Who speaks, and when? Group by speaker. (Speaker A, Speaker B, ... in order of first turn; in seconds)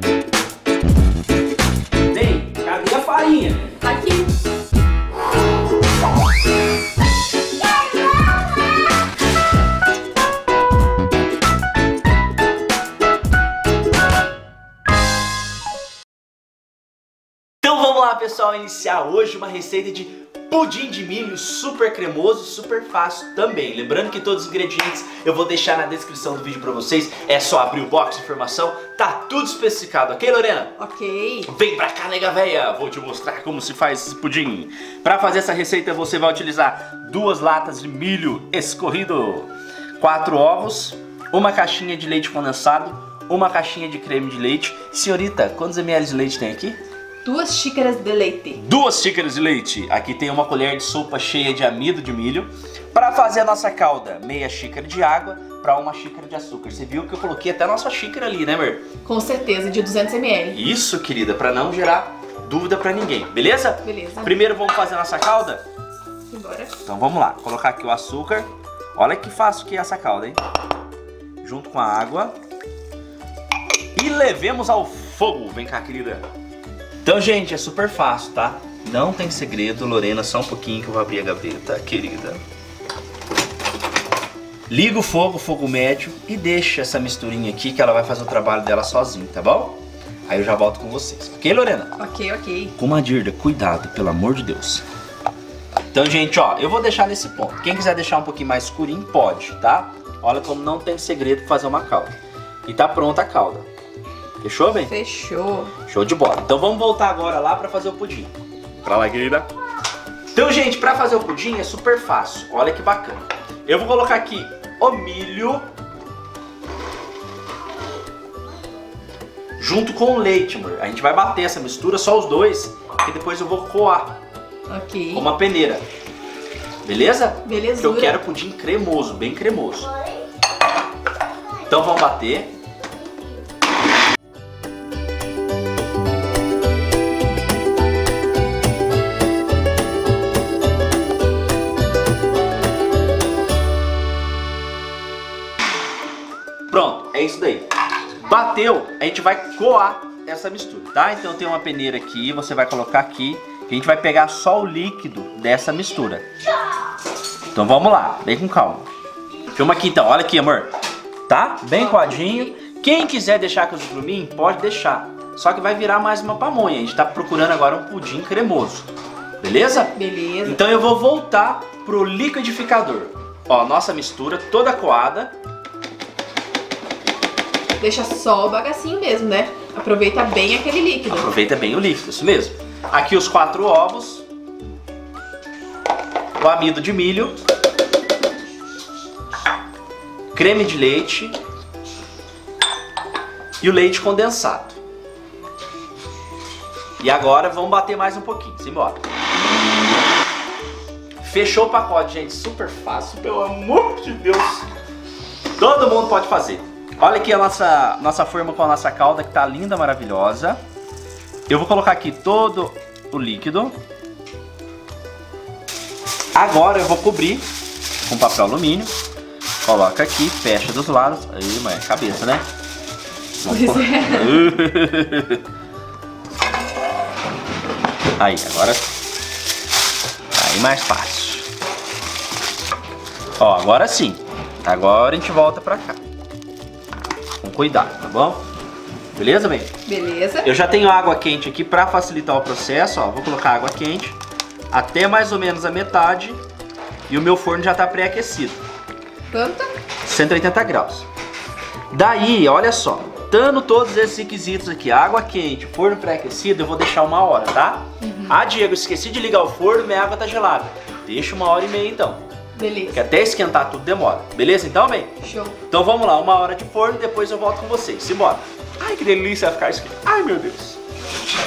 Speaker A: 2.1-3.8, 17.6-30.8, 31.4-39.5, 40.0-46.8, 48.6-58.9, 60.5-65.6, 66.8-70.4, 71.4-72.3, 74.0-76.2, 77.0-82.4, 84.7-91.9, 92.8-94.8, 95.9-102.1, 102.7-103.7, 104.4-104.9, 105.8-108.3, 108.8-109.5, 110.3-115.7, 119.6-124.2, 125.1-125.8, 126.8-129.9, 131.7-132.5, 146.7-147.7, 148.2-156.2, 157.5-158.9, 159.5-160.7, 161.3-168.9, 169.4-175.3, 181.1-184.2, 186.4-187.3, 190.3-191.4, 193.6-194.8, 197.0-199.0, 201.2-204.7, 205.6-210.6, 211.5-213.8, 216.3-217.5, 218.1-218.9, 219.6-222.4, 223.4-225.4, 228.2-228.9, 230.3-231.5, 233.4-236.0, 237.4-238.4, 239.2-239.7, 240.4-244.2, 244.7-246.4, 247.1-248.6, 250.0-251.1, 251.9-262.2, 262.9-270.8
Speaker B: 3.8-4.3, 30.8-31.5, 47.2-48.6, 59.0-60.6, 63.9-64.4, 66.3-66.8, 92.0-92.8, 104.8-105.7, 124.7-125.3, 127.5-128.2, 161.9-162.4, 169.9-170.6, 177.8-181.3, 223.4-224.6, 239.9-240.5, 249.3-249.8, 258.0-258.4, 262.6-263.0, 265.2-265.6